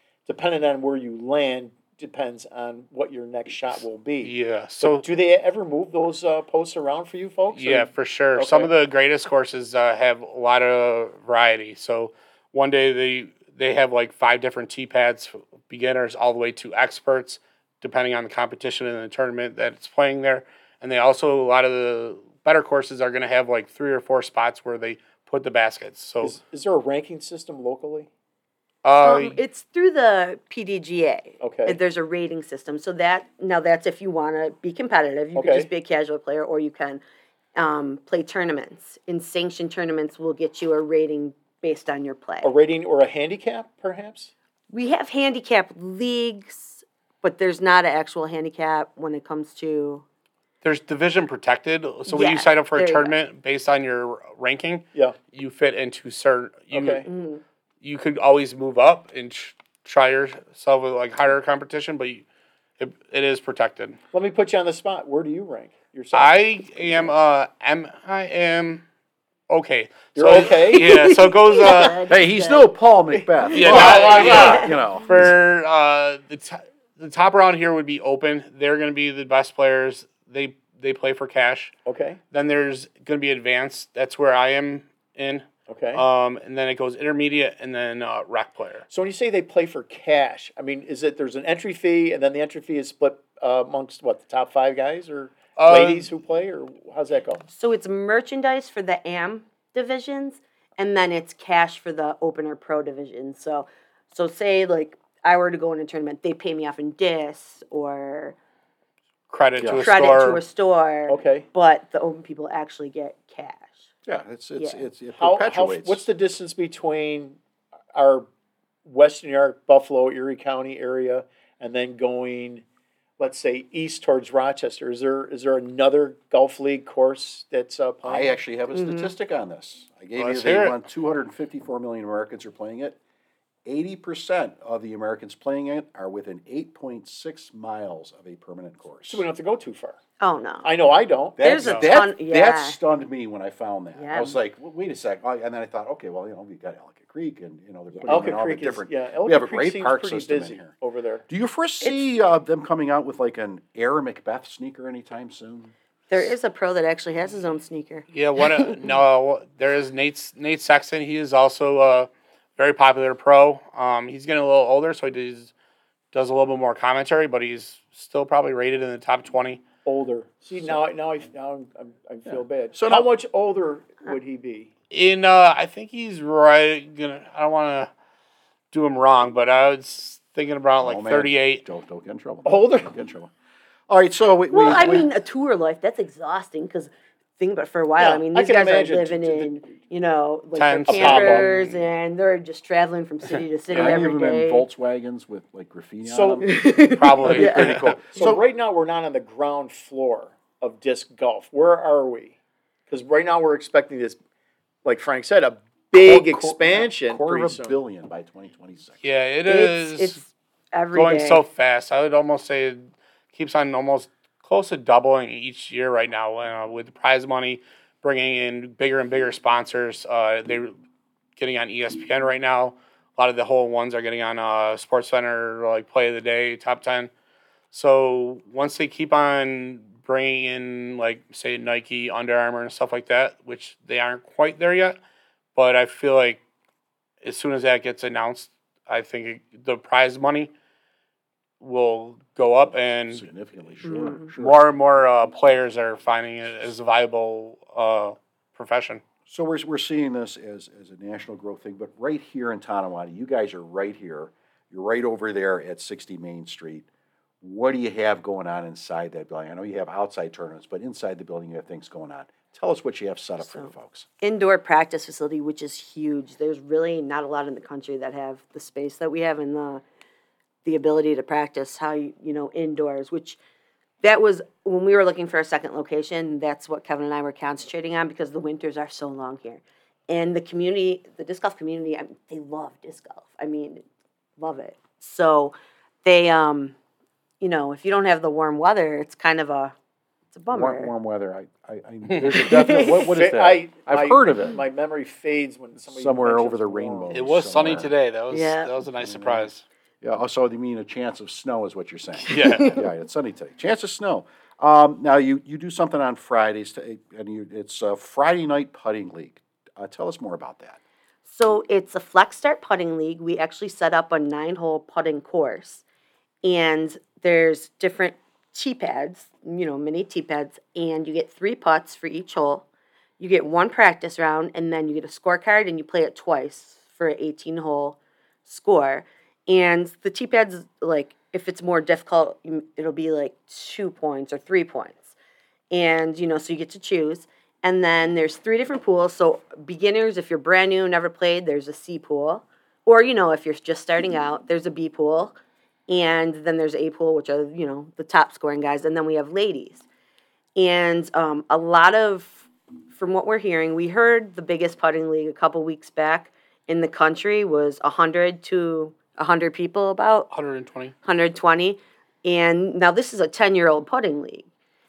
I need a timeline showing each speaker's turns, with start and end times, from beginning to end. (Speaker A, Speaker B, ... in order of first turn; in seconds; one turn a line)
Speaker A: 0.3-8.7
Speaker B: 4.2-5.0
Speaker B: 7.5-26.4
Speaker A: 26.2-28.1
Speaker B: 28.8-29.4
Speaker C: 29.0-37.0
Speaker A: 31.4-31.8
Speaker A: 35.4-35.7
Speaker C: 37.6-42.5
Speaker A: 42.4-44.3
Speaker C: 44.7-50.0
Speaker B: 50.6-57.1
Speaker C: 52.1-53.1
Speaker A: 56.7-57.1
Speaker C: 57.1-57.4
Speaker B: 57.8-62.2
Speaker B: 62.8-64.0
Speaker A: 64.1-67.1
Speaker B: 66.1-68.8
Speaker B: 69.5-72.0
Speaker A: 70.2-71.1
Speaker C: 70.7-72.7
Speaker D: 72.1-75.3
Speaker A: 73.2-74.7
Speaker B: 73.5-81.7
Speaker C: 74.3-74.7
Speaker A: 81.9-82.2
Speaker B: 82.3-88.9
Speaker A: 85.7-86.0
Speaker A: 88.9-97.5
Speaker B: 95.6-96.1
Speaker C: 97.5-108.4
Speaker B: 109.3-110.4
Speaker D: 109.6-109.9
Speaker C: 109.7-113.8
Speaker A: 111.1-111.5
Speaker D: 114.1-116.0
Speaker C: 114.6-114.8
Speaker A: 115.2-117.4
Speaker A: 117.9-118.3
Speaker A: 118.8-122.6
Speaker A: 123.2-128.4
Speaker D: 128.0-133.0
Speaker C: 128.7-129.1
Speaker B: 130.2-130.8
Speaker D: 133.7-139.2
Speaker A: 139.1-140.0
Speaker C: 140.2-140.7
Speaker A: 140.6-141.5
Speaker D: 141.4-150.7
Speaker C: 141.4-142.8
Speaker B: 141.6-141.9
Speaker C: 144.0-144.4
Speaker A: 148.1-151.2
Speaker D: 151.3-155.7
Speaker C: 156.1-158.8
Speaker B: 158.1-165.5
Speaker B: 166.1-169.6
Speaker A: 169.8-174.7
Speaker D: 172.3-173.1
Speaker B: 174.9-177.9
Speaker B: 178.7-181.6
Speaker D: 180.8-183.3
Speaker A: 182.4-182.9
Speaker D: 183.9-185.1
Speaker C: 184.5-194.7
Speaker A: 188.0-189.6
Speaker B: 190.5-191.8
Speaker A: 190.9-191.5
Speaker A: 193.7-194.0
Speaker D: 193.7-196.5
Speaker A: 196.0-196.5
Speaker C: 196.4-198.3
Speaker B: 196.9-197.9
Speaker D: 197.2-198.4
Speaker A: 198.1-202.4
Speaker A: 202.9-204.2
Speaker A: 204.8-207.8
Speaker D: 206.0-209.1
Speaker B: 209.0-210.2
Speaker C: 209.5-211.4
Speaker B: 210.9-220.8
Speaker B: 221.4-227.1
Speaker B: 227.7-235.0
Speaker B: 235.6-236.4
Speaker B: 237.2-240.5
Speaker B: 241.6-243.2
Speaker D: 243.1-244.6
Speaker C: 243.8-244.3
Speaker B: 244.4-249.0
Speaker D: 249.3-256.9
Speaker D: 257.4-264.1
Speaker C: 263.4-269.8
Speaker C: 270.6-273.4
Speaker C: 274.0-283.8
Speaker C: 284.4-286.8
Speaker C: 287.4-289.7
Speaker C: 290.3-290.9
Speaker D: 290.5-294.6
Speaker C: 292.4-293.0
Speaker A: 292.9-297.1
Speaker D: 295.9-297.9
Speaker B: 297.1-299.6
Speaker C: 298.3-298.7
Speaker D: 299.0-299.5
Speaker D: 300.0-310.8
Speaker B: 302.3-302.8
Speaker C: 302.3-302.8
Speaker C: 311.3-315.8
Speaker C: 316.4-322.7
Speaker C: 323.2-335.1
Speaker C: 335.7-345.4
Speaker C: 345.9-349.9
Speaker C: 350.6-360.3
Speaker B: 360.3-360.9
Speaker C: 361.0-364.5